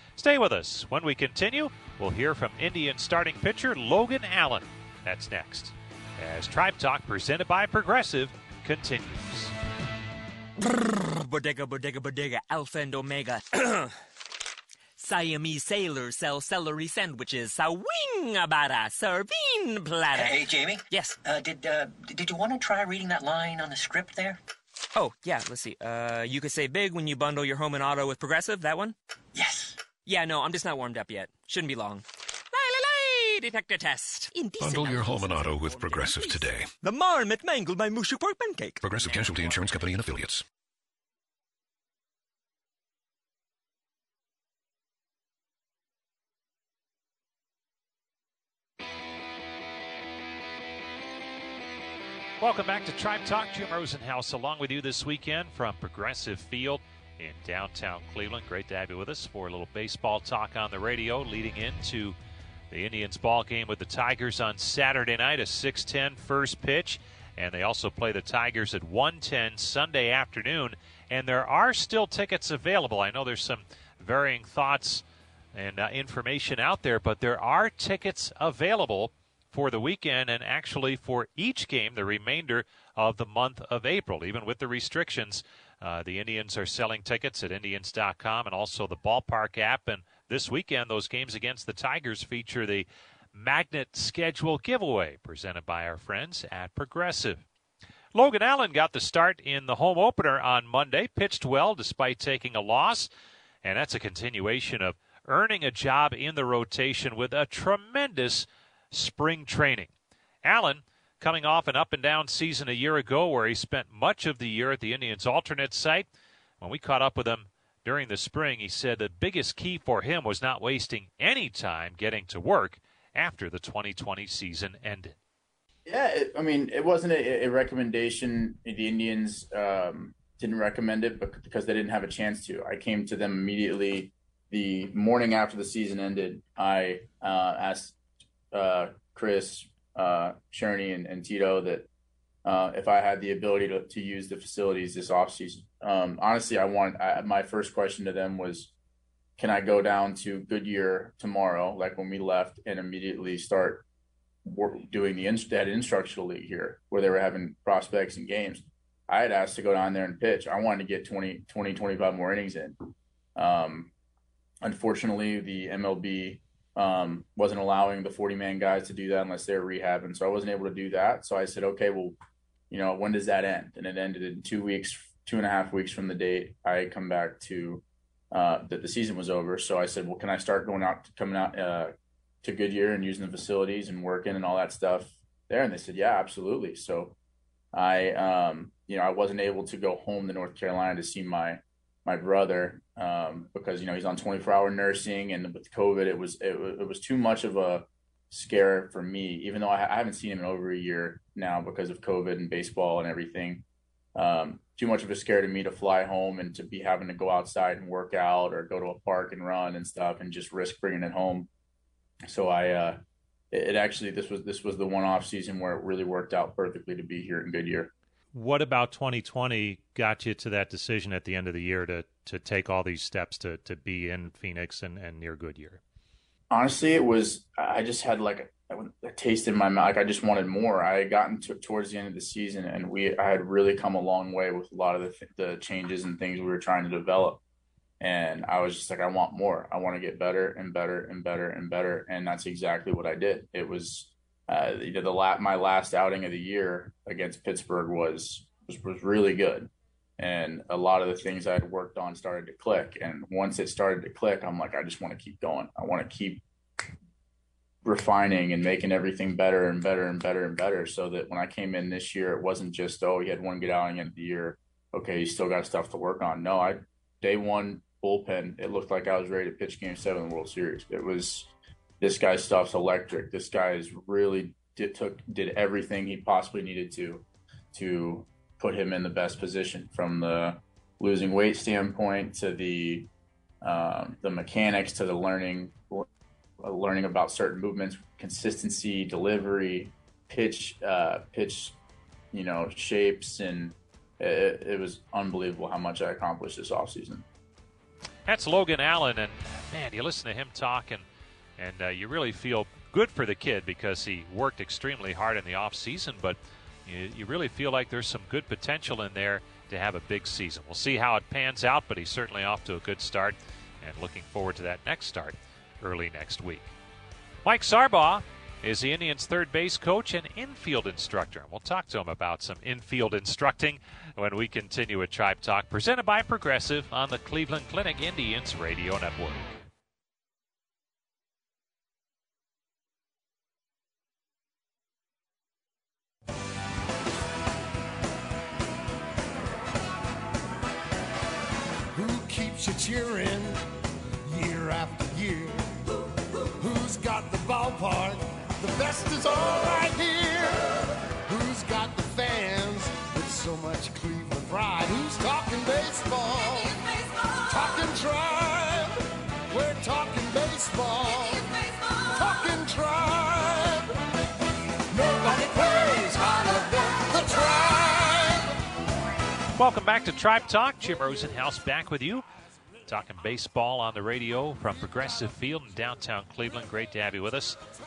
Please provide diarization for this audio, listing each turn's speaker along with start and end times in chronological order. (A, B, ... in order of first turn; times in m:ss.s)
0:00.2-0:09.5 A
0:10.6-0:13.9 B
0:15.0-0:21.2 B
0:20.1-0:24.4 C
0:24.9-0:29.0 B
0:29.3-0:29.8 C
0:30.0-0:39.4 B
0:34.6-0:36.7 D
0:38.8-0:40.4 D
0:52.4-1:02.2 A
1:02.7-1:37.4 A
1:38.1-1:43.1 A
1:43.6-1:49.9 A
1:50.4-1:56.1 A
1:56.6-2:05.2 A
2:05.9-2:18.0 E
2:18.5-2:21.9 E
2:22.4-2:28.7 E
2:29.4-2:33.9 E
2:34.4-2:43.9 E
2:44.6-2:52.2 E
2:52.7-3:07.2 E
3:07.7-3:31.5 E
3:32.3-3:33.0 E
3:33.5-3:37.9 E
3:38.3-3:45.8 A
3:46.5-3:57.4 E
3:58.0-4:16.4 E
4:17.8-4:43.1 E
4:43.6-4:46.1 E
4:46.6-4:51.8 E
4:52.3-4:57.2 E
4:58.3-5:01.0 A
5:01.6-5:16.7 A
5:17.4-5:29.6 A
5:41.9-5:43.6 F
5:44.2-5:45.8 F
5:46.6-5:56.9 F
5:57.4-5:59.0 F
5:59.5-6:03.9 F
6:04.9-6:08.5 F
6:09.6-6:12.3 A
6:12.9-6:17.6 A